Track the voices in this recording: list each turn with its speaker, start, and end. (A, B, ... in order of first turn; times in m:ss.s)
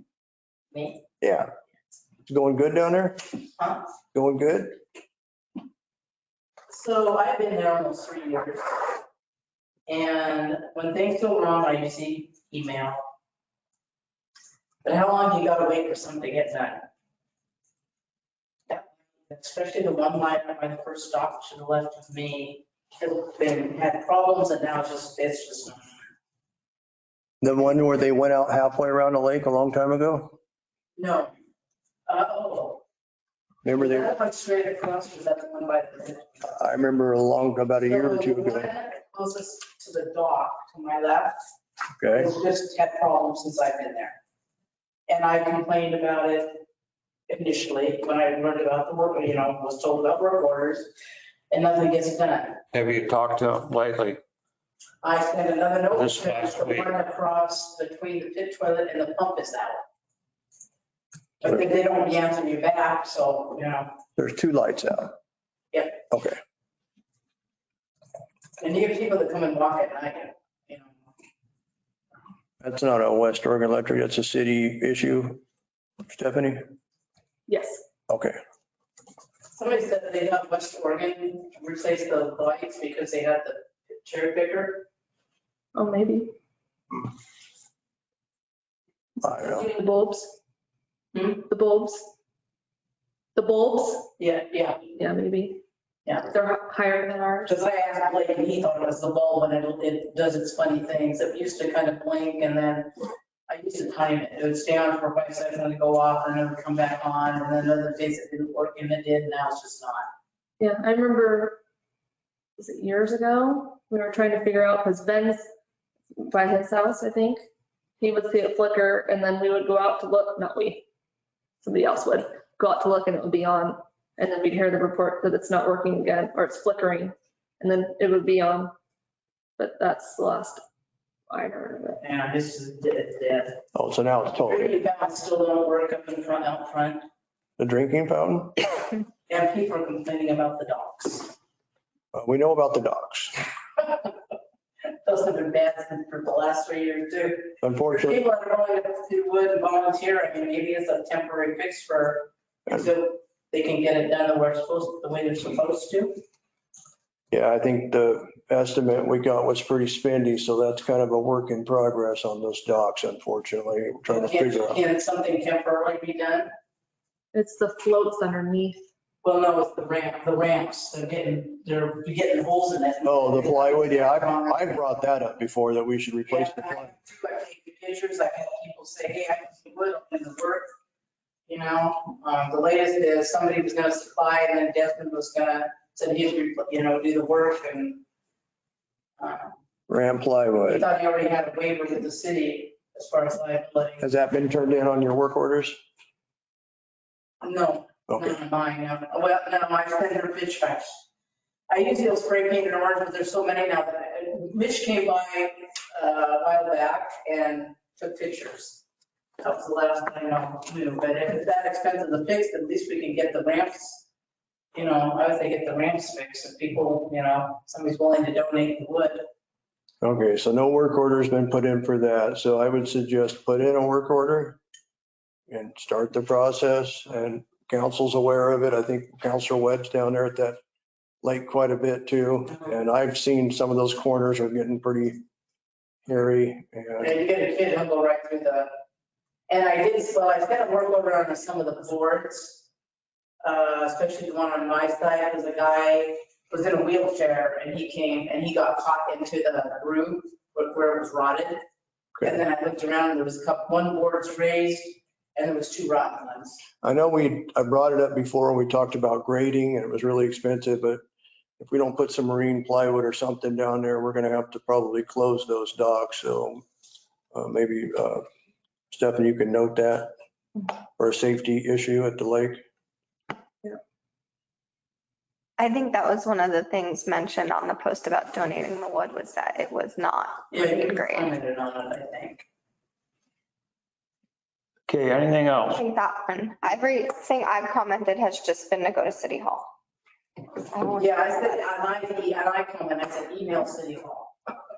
0:00.7-0:01.0 A
0:01.2-0:01.5 B
0:02.2-0:03.2 B
0:04.1-0:04.8 B
0:06.7-0:09.0 A
0:09.9-0:13.0 A
0:14.8-0:16.8 A
0:18.7-0:26.0 A
0:27.4-0:30.4 B
0:31.0-0:31.3 A
0:32.1-0:32.8 A
0:33.6-0:34.1 B
0:33.7-0:36.6 A
0:36.5-0:38.7 B
0:37.8-0:41.4 A
0:42.0-0:42.3 B
0:42.1-0:44.2 A
0:45.1-0:46.6 A
0:47.3-0:50.9 A
0:51.5-0:52.6 A
0:52.7-0:54.2 C
0:55.0-0:59.8 A
0:56.0-0:56.9 C
1:01.4-1:03.9 A
1:04.2-1:05.2 B
1:05.7-1:06.0 A
1:06.1-1:06.4 B
1:08.6-1:10.9 A
1:12.6-1:15.4 B
1:16.0-1:16.6 B
1:17.5-1:17.8 D
1:18.1-1:18.4 B
1:19.6-1:24.8 A
1:25.7-1:26.3 D
1:29.2-1:29.7 B
1:29.2-1:30.3 D
1:31.1-1:31.4 A
1:31.3-1:32.1 D
1:33.3-1:34.1 D
1:34.2-1:34.9 A
1:35.0-1:35.6 D
1:36.2-1:37.6 D
1:37.5-1:42.9 A
1:43.5-1:50.1 A
1:50.6-1:51.6 D
1:52.6-1:55.4 D
1:56.2-1:57.4 D
1:58.0-2:00.8 D
2:01.6-2:08.7 D
2:09.6-2:10.6 D
2:11.3-2:12.0 D
2:12.0-2:13.6 A
2:13.7-2:14.7 B
2:14.4-2:17.0 A
2:17.6-2:18.6 B
2:19.3-2:21.3 A
2:22.1-2:23.4 B
2:23.8-2:24.1 A
2:25.0-2:36.2 A
2:27.6-2:28.2 B
2:37.3-2:44.8 B
2:44.1-2:46.5 A
2:47.3-2:48.8 D
2:49.2-2:54.8 A
2:53.0-2:56.9 B
2:56.3-3:00.7 A
3:01.5-3:08.0 A
3:09.2-3:09.5 A
3:09.9-3:10.8 B
3:10.6-3:14.0 A
3:14.0-3:15.8 B
3:17.4-3:20.9 A
3:18.1-3:18.3 B
3:21.7-3:28.8 A
3:29.4-3:34.0 A
3:34.7-3:39.2 A
3:40.0-3:44.6 B
3:45.5-3:50.6 B
3:51.2-3:55.2 B
3:56.1-3:57.2 B
3:57.0-3:58.7 A
3:59.5-4:02.6 A
4:03.4-4:11.6 A
4:12.2-4:16.6 A
4:16.8-4:21.0 B
4:21.6-4:26.6 B
4:27.3-4:28.2 B
4:28.9-4:30.1 B
4:31.0-4:32.6 B
4:35.6-4:41.3 E
4:40.5-4:42.4 A
4:44.9-4:45.8 C
4:45.8-4:49.7 E
4:50.7-4:51.7 E
4:50.9-4:54.3 A